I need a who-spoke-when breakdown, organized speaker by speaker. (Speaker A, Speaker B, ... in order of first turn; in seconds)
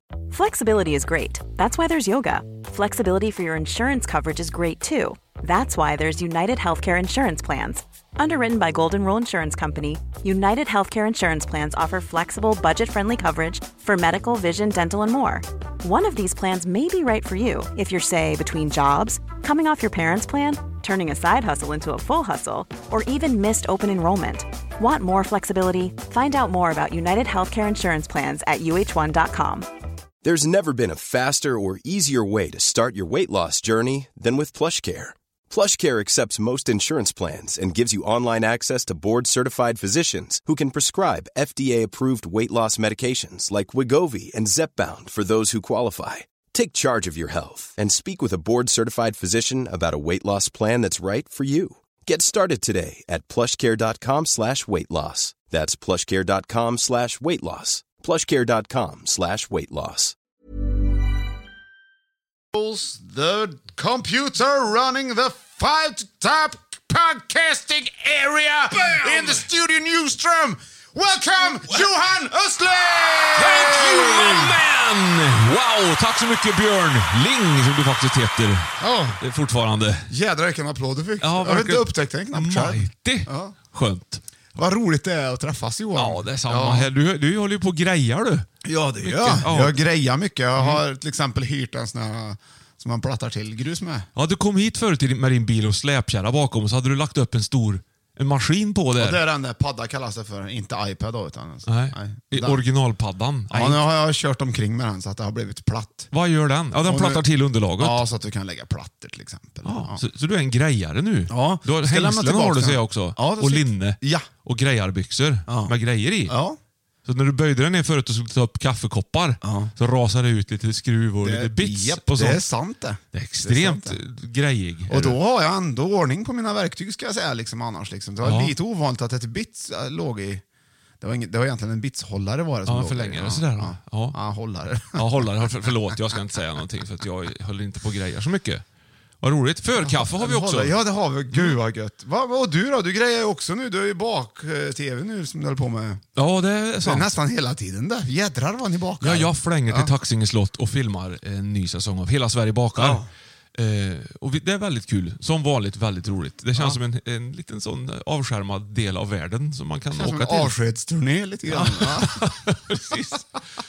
Speaker A: 0.3-29.7
Speaker B: 30.2-60.1
Speaker C: 62.5-74.6, 78.8-79.2, 80.1-83.5, 84.5-86.9, 88.6-94.1, 99.0-102.6, 103.5-106.1, 106.8-107.2, 107.8-110.0, 111.3-114.3, 115.5-115.7, 116.3-116.6, 119.4-119.7, 121.2-124.0, 124.9-130.4, 131.0-135.2, 139.8-146.0, 146.8-149.9, 152.8-153.1, 159.9-162.2
Speaker D: 68.8-69.4, 73.3-80.1, 81.2-84.2, 86.0-88.5, 89.0-89.8, 90.6-90.8, 94.2-99.2, 101.7-103.8, 106.1-108.0, 109.6-116.4, 117.0-122.4, 123.1-125.2, 128.2-128.5, 132.7-134.2, 134.9-138.6, 139.2-140.8, 146.2-147.1, 149.0-153.0, 153.5-160.5, 161.5-163.2